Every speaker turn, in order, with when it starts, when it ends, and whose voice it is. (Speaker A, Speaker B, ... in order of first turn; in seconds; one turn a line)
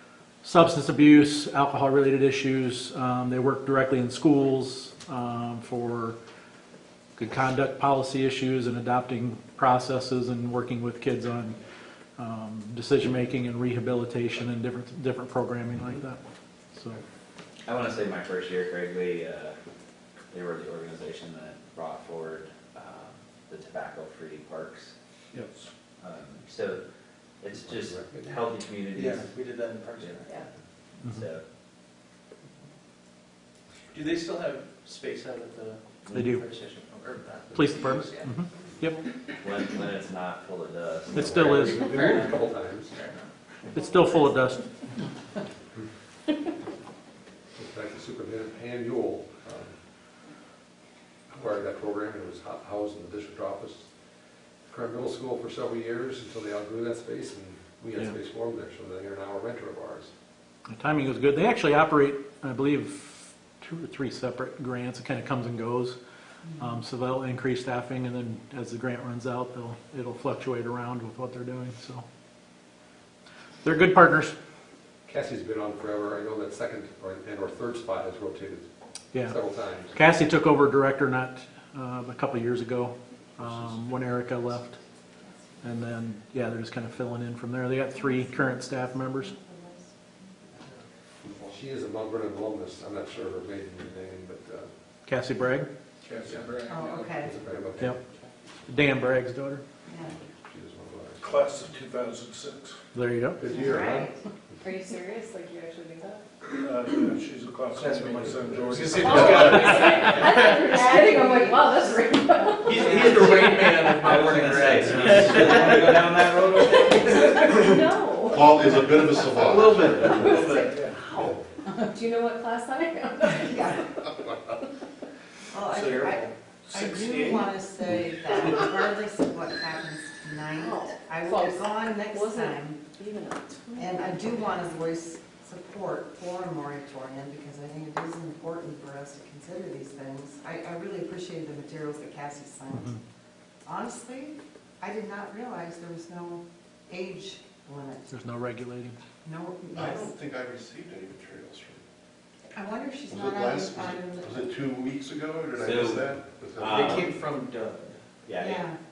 Speaker A: 0.4-6.2
Speaker A: 7.2-11.6
Speaker A: 12.2-16.2
Speaker A: 16.7-17.0
Speaker B: 17.6-19.6
Speaker B: 20.3-24.9
Speaker C: 25.3-25.7
Speaker B: 26.0-26.8
Speaker B: 27.4-29.3
Speaker D: 27.7-28.4
Speaker E: 28.9-30.5
Speaker B: 31.0-31.4
Speaker E: 33.9-38.5
Speaker B: 36.0-36.3
Speaker A: 36.1-36.4
Speaker A: 37.5-39.0
Speaker B: 39.4-41.4
Speaker A: 41.1-41.9
Speaker D: 41.1-42.9
Speaker E: 41.8-43.3
Speaker A: 43.7-44.6
Speaker F: 44.2-44.6
Speaker D: 47.5-49.8
Speaker D: 51.3-53.9
Speaker D: 54.7-60.1
Speaker A: 60.7-66.0
Speaker A: 66.6-72.0
Speaker A: 73.6-74.3
Speaker D: 75.0-80.0
Speaker A: 79.1-84.8
Speaker A: 85.6-89.3
Speaker D: 91.5-94.7
Speaker A: 95.0-95.7
Speaker C: 96.1-97.2
Speaker G: 96.6-97.3
Speaker D: 97.2-98.0
Speaker A: 98.7-99.6
Speaker G: 99.9-100.2
Speaker D: 100.4-101.3
Speaker C: 101.2-102.8
Speaker A: 102.9-103.4
Speaker D: 103.4-104.2
Speaker G: 103.5-104.0
Speaker F: 103.6-104.1
Speaker F: 104.6-106.5
Speaker C: 106.5-109.4
Speaker E: 107.8-111.0
Speaker D: 108.2-108.6
Speaker F: 109.0-112.8
Speaker A: 109.6-109.9
Speaker E: 112.5-117.7
Speaker B: 112.8-117.5
Speaker F: 117.5-121.2
Speaker H: 118.2-120.3
Speaker E: 119.4-121.2
Speaker F: 121.7-123.6
Speaker G: 123.2-123.9
Speaker G: 125.5-132.8
Speaker E: 125.7-126.3
Speaker C: 126.7-127.6
Speaker F: 130.5-134.4
Speaker G: 133.7-142.9
Speaker G: 143.6-148.1
Speaker A: 148.1-149.0
Speaker G: 149.2-150.1
Speaker H: 149.7-151.8
Speaker G: 152.5-154.5
Speaker H: 153.1-156.8
Speaker B: 155.6-157.1
Speaker E: 156.6-158.0
Speaker B: 158.2-158.7
Speaker G: 158.4-158.8